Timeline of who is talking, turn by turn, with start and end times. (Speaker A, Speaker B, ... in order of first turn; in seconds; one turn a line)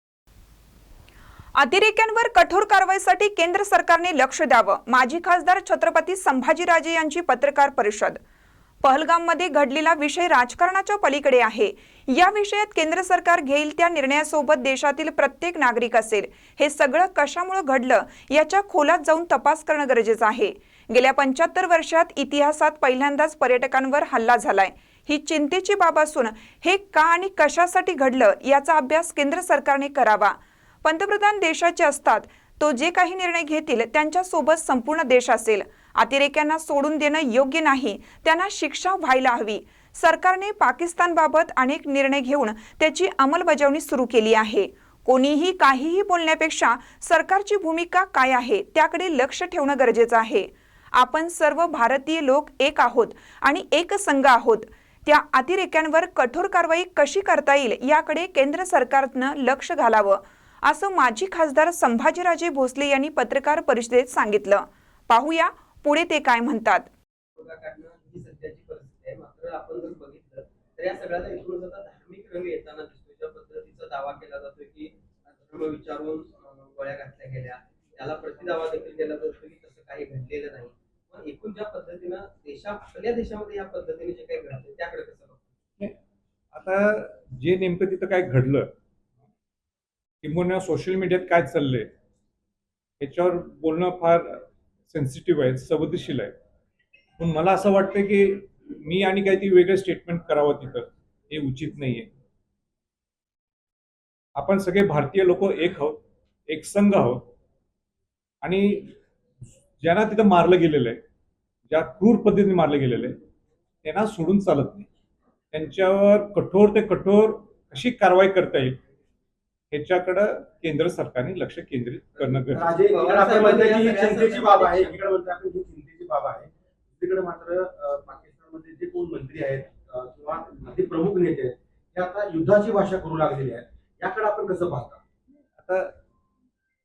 Speaker A: 1.6-8.2
Speaker A: 8.8-66.9
Speaker B: 67.4-85.4
Speaker C: 86.5-88.7
Speaker C: 90.2-91.9
Speaker C: 93.0-96.3
Speaker C: 97.2-102.1
Speaker C: 104.4-107.3
Speaker C: 108.4-109.0
Speaker C: 109.8-111.0
Speaker C: 111.7-113.2
Speaker C: 113.8-114.9
Speaker C: 115.5-118.8
Speaker C: 119.7-122.7
Speaker D: 122.5-135.0
Speaker B: 122.8-125.0
Speaker C: 135.6-135.9